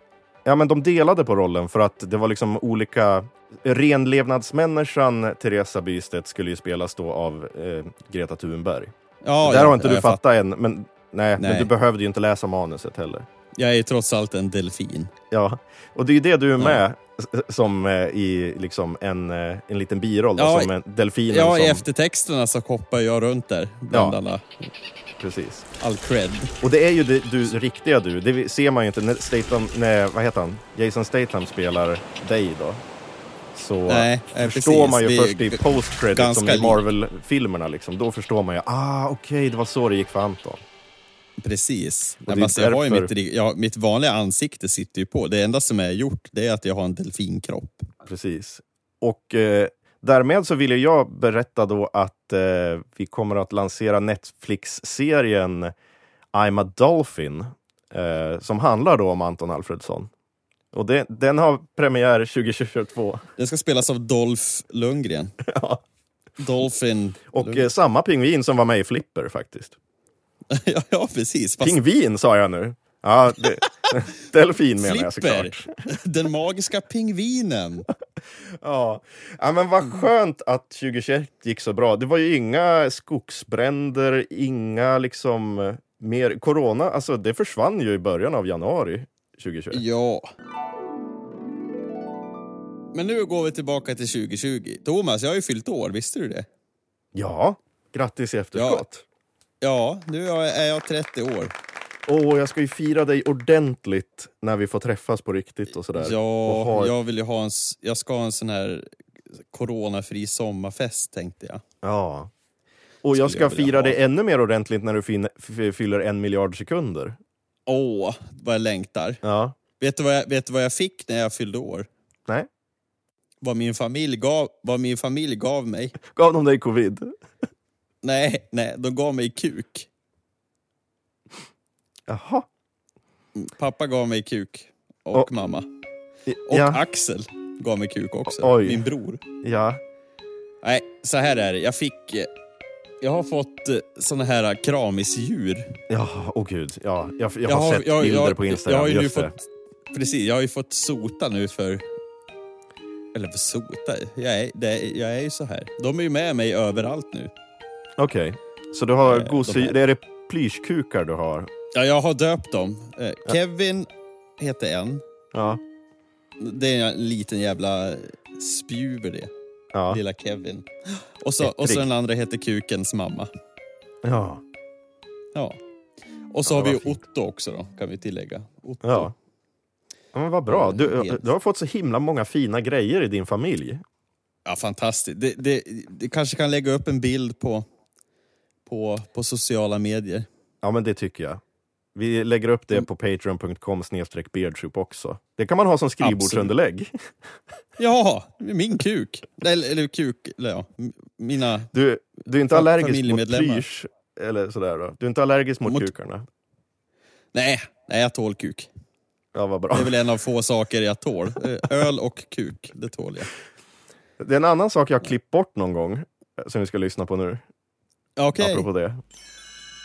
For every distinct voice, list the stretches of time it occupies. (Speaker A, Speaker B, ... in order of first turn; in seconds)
Speaker A: 0.4-8.9, 9.4-13.2, 15.3-21.8, 23.9-24.2, 25.2-25.7, 26.6-32.8, 33.5-40.6, 42.2-43.1, 48.0-55.7, 56.3-60.1, 60.7-63.2, 65.4-65.8, 67.3-69.8, 71.6-75.7, 78.6-89.8, 97.1-99.0, 102.1-106.9, 111.8-112.3, 113.0-117.2, 119.2-119.5, 126.1-127.1, 132.1-132.5, 136.3-136.8, 138.3-138.8, 139.4-139.8, 145.9-149.3, 158.0-161.5, 165.3-165.6, 169.7-170.0, 171.4-171.9, 174.0-174.4, 176.4-177.0, 178.8-179.1, 180.1-183.8, 190.6-191.4, 191.9-196.9, 201.7-206.2, 209.3-209.9, 214.2-217.4, 218.4-219.0
Speaker B: 9.2-10.2, 11.4-11.7, 13.6-15.1, 20.4-20.7, 21.3-24.6, 25.8-26.5, 33.9-36.8, 41.4-47.9, 63.4-65.4, 66.4-67.7, 70.5-71.8, 74.8-77.9, 89.7-90.3, 92.9-96.5, 98.5-98.8, 99.6-101.5, 106.0-108.9, 109.5-111.6, 113.1-114.0, 117.7-119.2, 119.8-121.9, 123.4-126.0, 128.0-129.9, 133.3-135.7, 136.5-139.2, 140.6-142.3, 143.0-145.8, 147.4-151.8, 153.1-157.3, 159.0-159.8, 161.7-165.0, 166.4-169.3, 169.9-173.3, 176.3-179.1, 180.5-181.2, 184.4-187.6, 188.7-190.3, 196.0-196.5, 197.8-201.7, 202.5-203.6, 207.3-208.7, 209.7-213.3, 218.2-218.7